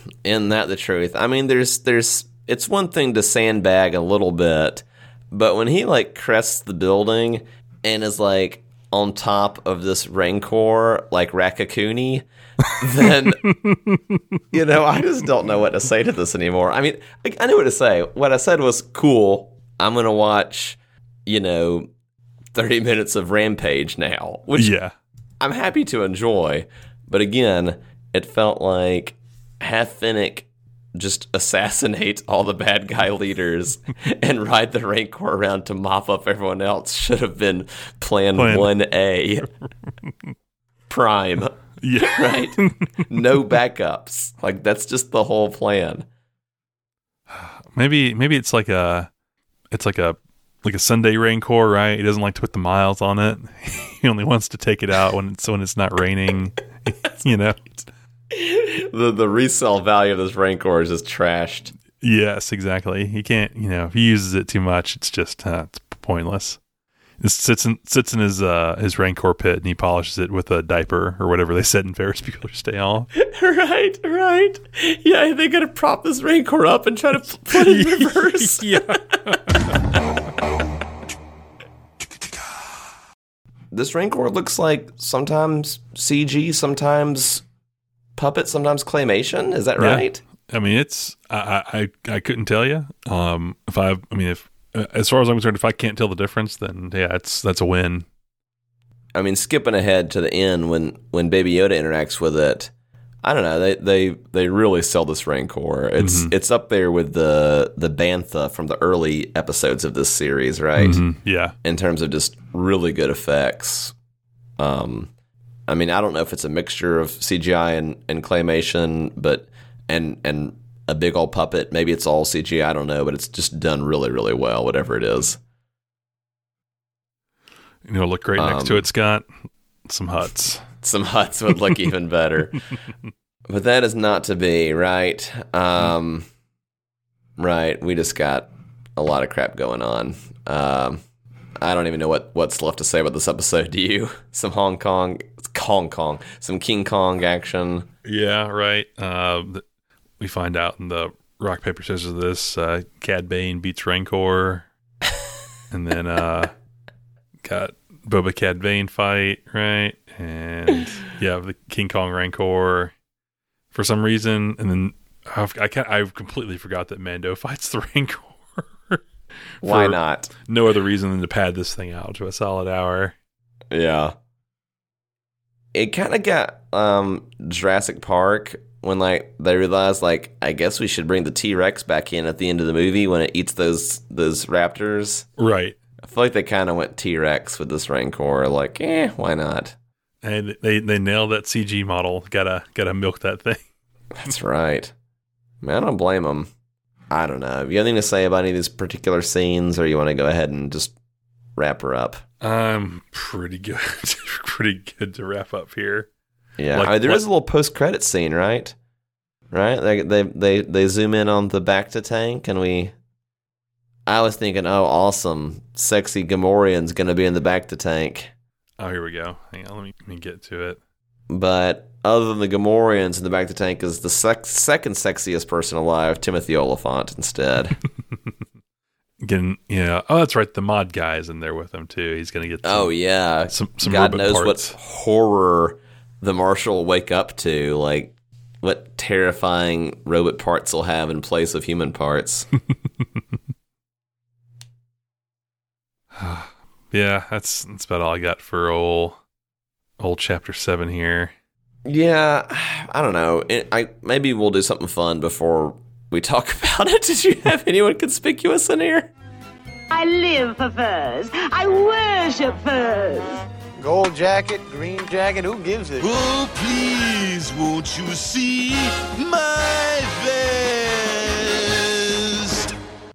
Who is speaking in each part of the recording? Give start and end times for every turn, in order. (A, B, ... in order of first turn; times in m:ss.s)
0:00.2-0:13.4 A
0:13.3-0:14.2 B
0:14.5-0:21.9 A
0:22.5-0:24.7 A
0:24.6-0:24.9 B
0:25.4-0:39.5 A
0:38.4-0:38.7 B
0:40.9-0:46.0 A
0:41.8-0:43.0 B
0:47.3-0:49.1 B
0:49.7-0:57.8 B
0:58.3-1:01.7 A
1:02.0-1:06.6 B
1:07.2-1:13.1 B
1:13.1-1:19.2 A
1:17.5-1:20.0 B
1:23.7-1:27.4 A
1:28.2-1:30.2 A
1:29.8-1:38.0 B
1:39.1-1:42.7 A
1:43.2-1:51.0 A
1:46.0-1:46.3 B
1:50.8-1:51.5 B
1:51.6-1:53.9 A
1:54.6-1:55.1 A
1:55.7-2:05.4 A
2:07.8-2:09.3 B
2:08.4-2:08.9 A
2:09.8-2:10.6 B
2:10.8-2:12.6 A
2:13.5-2:16.3 A
2:17.4-2:21.0 A
2:21.6-2:27.9 A
2:28.0-2:29.6 B
2:30.2-2:34.6 B
2:35.7-2:36.5 B
2:37.4-2:42.9 B
2:43.7-2:49.0 B
2:49.6-2:53.1 B
2:49.6-2:50.3 A
2:53.7-2:54.1 A
2:55.7-3:05.3 A
3:05.4-3:05.8 B
3:06.0-3:09.7 A
3:10.2-3:13.6 B
3:14.2-3:14.9 A
3:15.6-3:16.5 A
3:17.1-3:20.9 A
3:21.6-3:22.2 A
3:22.4-3:26.1 B
3:26.6-3:28.7 A
3:26.7-3:27.2 B
3:29.5-3:32.9 A
3:34.1-3:38.3 A
3:38.8-3:40.8 B
3:41.3-3:47.8 A
3:49.2-3:52.9 B
3:52.6-4:02.5 A
3:53.5-3:54.7 B
4:06.2-4:09.2 B
4:10.0-4:11.3 B
4:11.8-4:19.1 A
4:19.9-4:23.4 C
4:23.8-4:26.0 D
4:26.0-4:32.7 E